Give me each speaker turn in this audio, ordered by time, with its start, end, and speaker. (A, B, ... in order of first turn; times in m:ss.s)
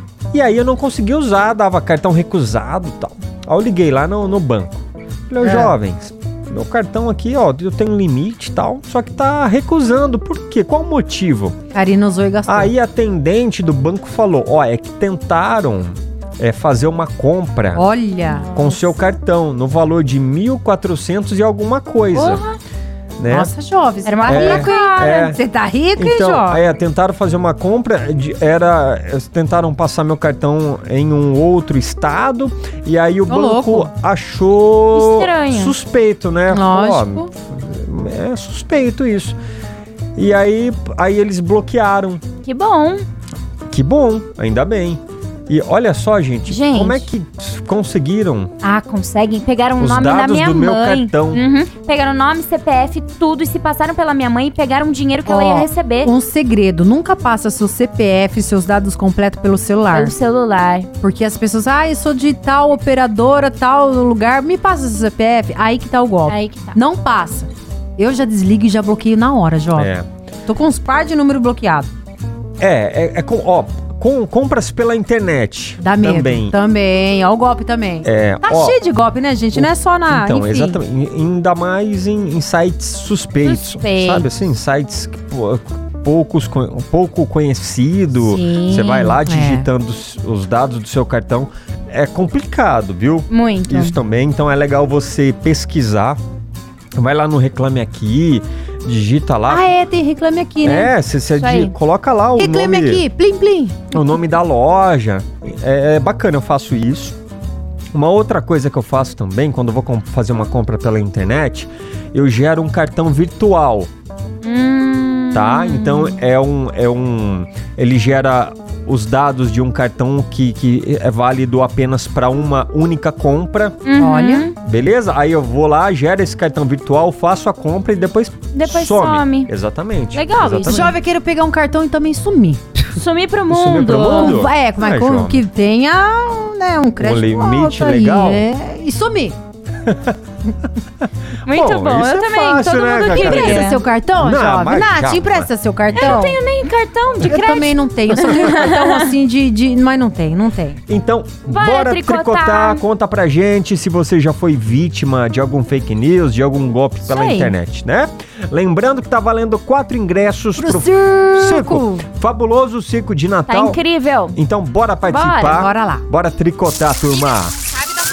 0:00.3-0:11.6 A
0:05.4-0:05.7 B
0:11.7-0:12.7 B
0:12.5-0:17.8 A
0:17.7-0:18.5 B
0:18.2-0:18.8 C
0:18.5-0:22.4 A
0:22.1-0:22.6 C
0:23.2-0:23.5 A
0:23.3-0:26.6 B
0:24.0-0:25.3 C
0:24.3-0:25.4 A
0:26.0-0:39.4 A
0:33.3-0:33.9 B
0:34.9-0:35.7 C
0:36.5-0:37.3 B
0:40.2-0:42.2 A
0:42.4-0:43.1 C
0:43.7-0:48.5 A
0:46.5-0:47.1 C
0:48.6-0:56.1 C
0:49.8-0:51.4 A
0:55.2-1:00.1 B
0:59.9-1:00.9 C
1:01.0-1:09.9 B
1:06.3-1:06.8 C
1:09.7-1:10.0 A
1:10.5-1:11.9 B
1:12.6-1:16.5 A
1:15.8-1:20.8 B
1:18.0-1:18.8 A
1:19.5-1:36.2 A
1:23.4-1:24.3 C
1:28.1-1:29.2 C
1:29.2-1:29.7 B
1:33.3-1:34.0 C
1:37.0-1:39.7 A
1:39.5-1:40.9 B
1:40.6-1:43.0 A
1:41.3-1:41.7 C
1:42.4-1:44.0 B
1:43.9-1:47.2 A
1:47.9-1:53.9 A
1:54.4-1:56.2 C
1:55.3-2:03.8 A
2:03.8-2:04.6 C
2:03.9-2:04.5 B
2:04.6-2:10.9 A
2:08.5-2:09.5 C
2:10.1-2:10.9 C
2:10.6-2:12.9 B
2:12.9-2:14.4 C
2:13.5-2:15.4 A
2:14.0-2:19.4 B
2:17.0-2:18.4 A
2:19.8-2:20.1 A
2:21.4-2:23.8 C
2:21.5-2:26.3 A
2:23.1-2:26.4 B
2:25.9-2:29.1 C
2:27.2-2:30.8 B
2:30.9-2:43.8 A
2:31.5-2:32.8 C
2:37.0-2:37.5 C
2:40.6-2:42.0 B
2:43.5-2:44.4 C
2:44.3-2:47.6 A
2:45.1-2:45.6 C
2:45.5-2:46.0 B